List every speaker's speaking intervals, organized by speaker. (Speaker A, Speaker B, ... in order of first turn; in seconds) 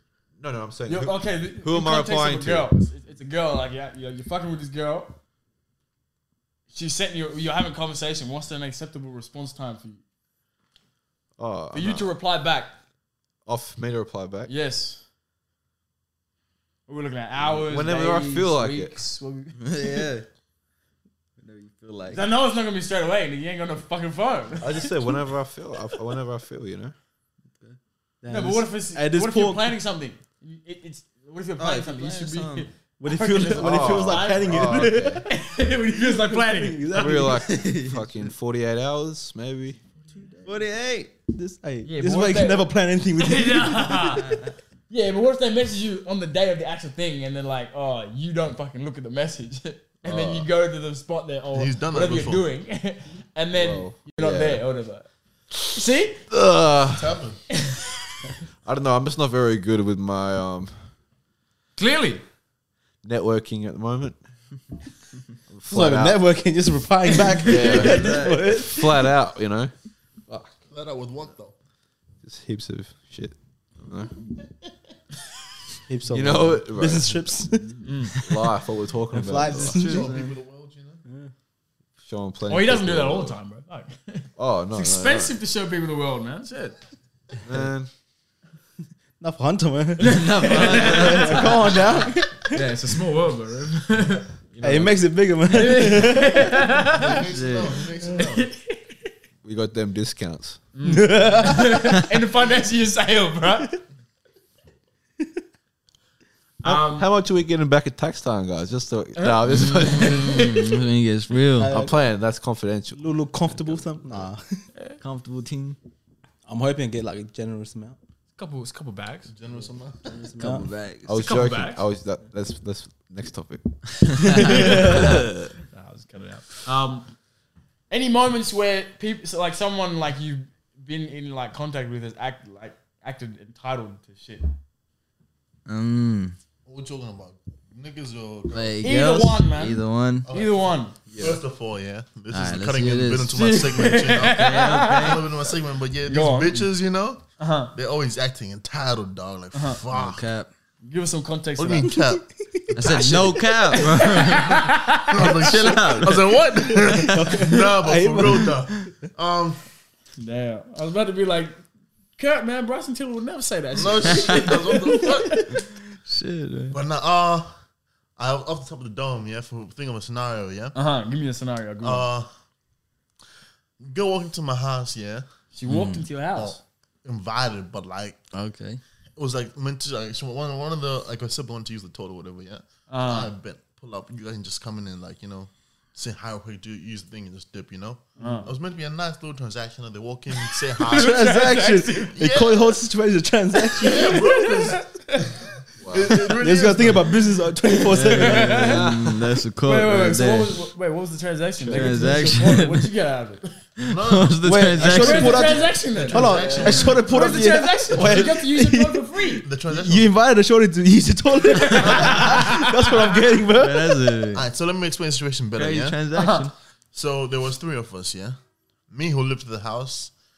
Speaker A: 0.4-2.7, 11.4-12.1, 13.5-14.5, 17.4-19.0, 24.6-26.9, 33.5-35.2, 37.0-39.8, 50.0-50.5, 53.5-54.6, 56.3-57.2, 58.6-60.8, 63.0-64.2, 65.5-66.2, 67.4-69.7, 70.3-70.6, 72.2-74.2, 76.1-77.5, 78.2-80.0, 82.0-83.3, 84.4-85.4, 87.4-87.9, 94.6-94.9, 99.4-100.6, 106.7-110.5, 111.6-113.0, 121.0-125.1, 141.1-141.4, 195.8-196.2
Speaker B: 0.9-5.2, 6.7-10.0, 11.7-12.8, 14.5-15.0, 16.9-20.0, 22.1-25.1, 28.3-37.3, 41.9-55.1, 55.7-56.2, 57.5-57.8, 61.8-62.2, 67.3-67.8, 77.8-78.1, 82.5-86.8, 90.0-91.7, 92.5-94.6, 95.5-97.2, 98.1-98.9, 100.7-103.7, 106.6-107.1, 109.2-110.7, 118.4-119.3, 121.1-121.8, 125.7-127.1, 127.9-134.5, 138.8-140.9, 143.3-145.2, 146.1-146.7, 147.4-147.7, 150.8-151.9, 153.7-155.5, 160.2-161.6, 162.2-165.4, 170.8-172.1, 175.5-176.6, 182.9-183.3, 188.2-188.5, 190.8-192.2, 193.7-195.3, 197.9-198.9, 199.6-203.5, 204.9-209.5, 211.4-212.9, 216.1-216.5
Speaker C: 19.6-20.3, 21.4-22.2, 31.6-32.7, 37.4-38.1, 40.4-41.2, 44.2-44.5, 67.6-68.5, 79.2-80.3, 90.0-91.8, 97.3-97.8, 109.7-111.8, 115.0-115.8, 120.4-121.1, 124.1-125.5, 135.7-136.4, 138.5-140.3, 142.3-143.3, 144.3-145.3, 149.9-150.5, 152.8-157.2, 164.1-164.6, 165.5-166.8, 175.7-176.1, 178.3-178.8, 197.9-200.6, 201.7-202.9, 203.8-205.6, 213.5-214.5, 215.6-216.5
Speaker D: 28.2-29.8, 33.0-35.3, 36.0-37.6, 40.2-40.6, 41.3-44.3, 65.7-69.1, 75.9-77.9, 79.1-80.1, 81.1-81.3, 89.2-92.7, 94.6-96.9, 100.8-102.0, 111.6-111.9, 113.0-114.6, 116.5-118.0, 120.1-120.7, 124.3-125.2, 152.1-152.6, 156.7-158.6, 190.9-194.3, 196.4-198.9, 201.7-202.1, 204.4-209.1, 209.7-214.1
Speaker E: 51.5-52.5, 56.9-57.4, 70.7-71.5, 79.7-81.0, 96.9-98.5, 119.3-120.2, 136.7-138.8, 140.3-150.2, 151.6-153.8, 155.1-159.6, 163.8-165.5, 166.7-167.5, 168.2-170.8, 171.8-172.3, 173.8-175.3, 176.3-178.2, 179.2-191.3, 192.1-192.8, 193.8-197.3, 203.9-205.0, 205.7-207.6, 209.4-210.1, 214.3-216.0, 216.9-218.4, 218.9-220.1